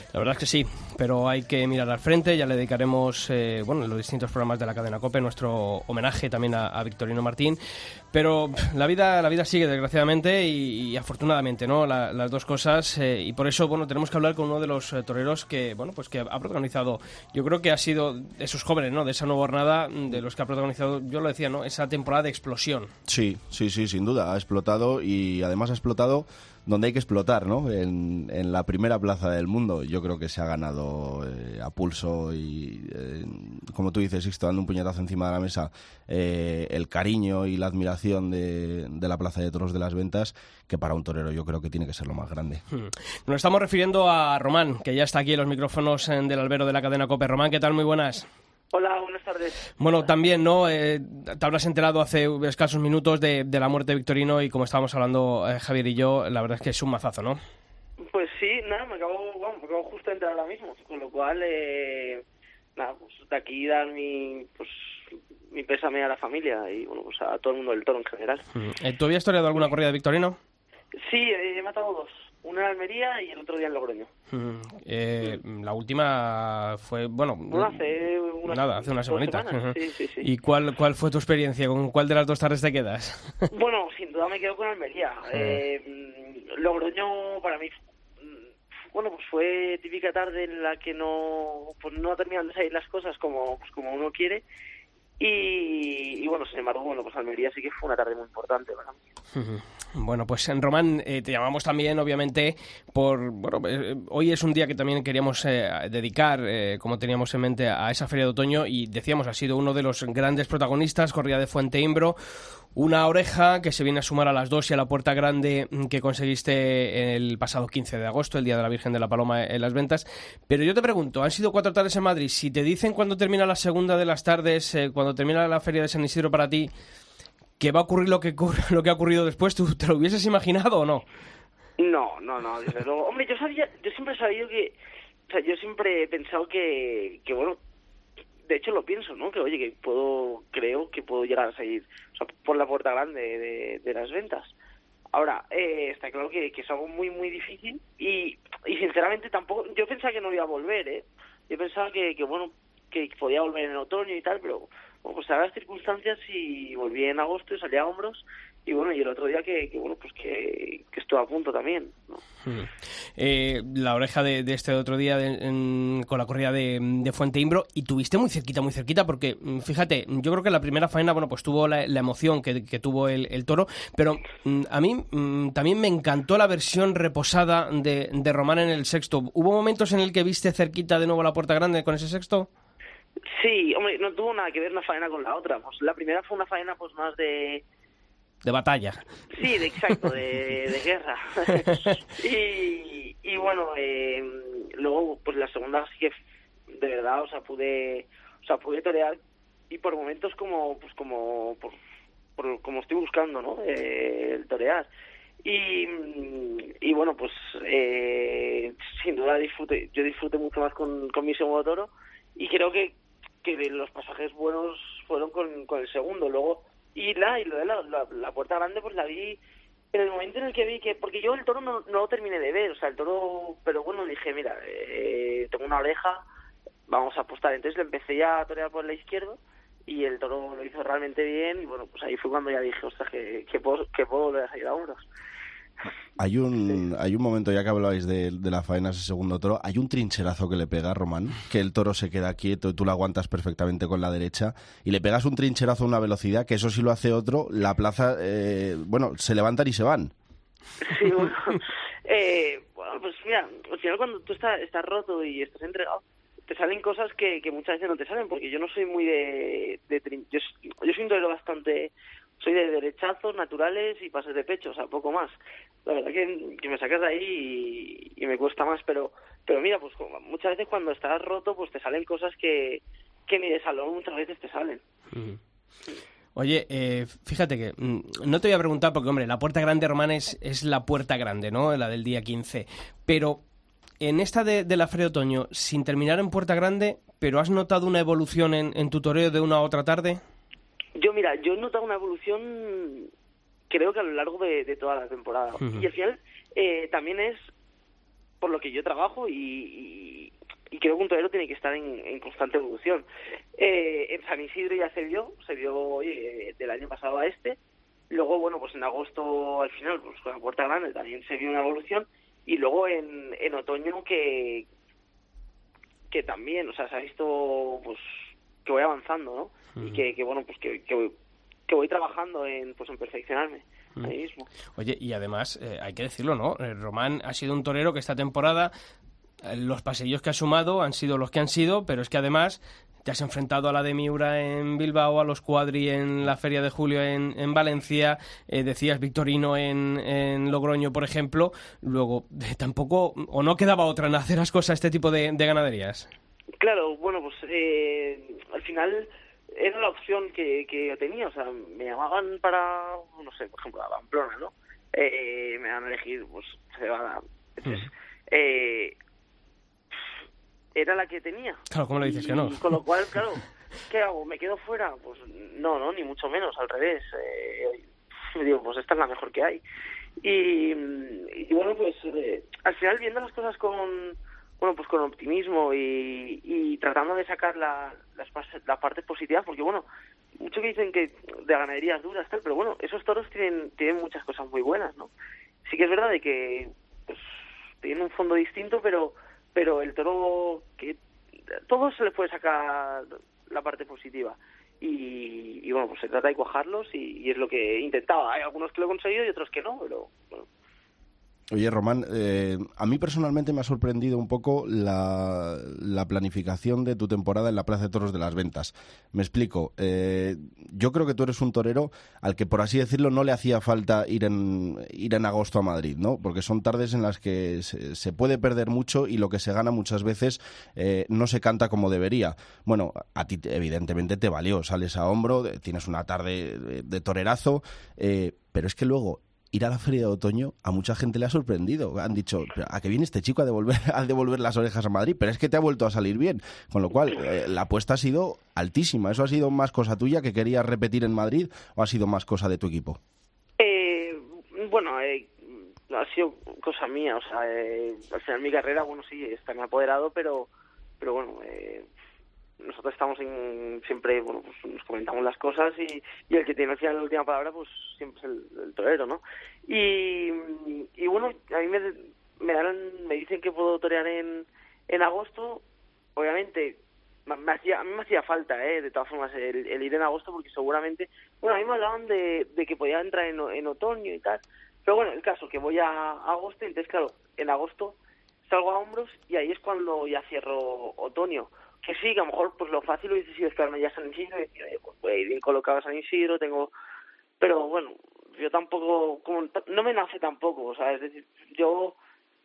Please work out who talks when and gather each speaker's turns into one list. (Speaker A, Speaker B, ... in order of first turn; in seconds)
Speaker A: 0.1-7.6, 8.1-22.9, 42.7-48.2, 49.8-57.4, 68.5-70.4, 74.3-77.8, 78.5-83.4, 85.3-85.6, 99.3-112.2, 112.7-126.7, 127.6-131.0, 162.4-182.5, 188.4-189.0, 275.1-275.4, 276.4-283.4, 284.0-290.2, 295.6-295.9, 324.7-328.7, 329.4-346.1, 361.7-362.6
Speaker B: 23.1-42.6, 236.2-250.1, 401.5-443.0
Speaker C: 48.7-49.7, 58.1-62.2, 62.8-68.4, 71.0-74.1, 77.5-80.3, 83.5-88.4, 88.9-94.4, 95.2-99.0, 131.8-134.7, 135.3-137.6, 138.4-144.5, 145.1-162.2, 183.3-187.6, 189.3-196.1, 196.7-199.2, 199.7-201.8, 202.4-204.9, 205.4-219.4, 219.9-226.2, 226.9-235.1, 250.8-274.8, 291.0-293.1, 293.7-297.4, 298.4-307.6, 308.1-314.6, 316.1-321.1, 321.7-324.5, 346.6-358.9, 360.7-369.6, 370.2-379.8, 380.4-385.1, 385.6-391.0, 391.7-400.4, 443.6-451.9, 452.6-465.6, 466.1-477.9, 478.5-486.7, 487.4-491.9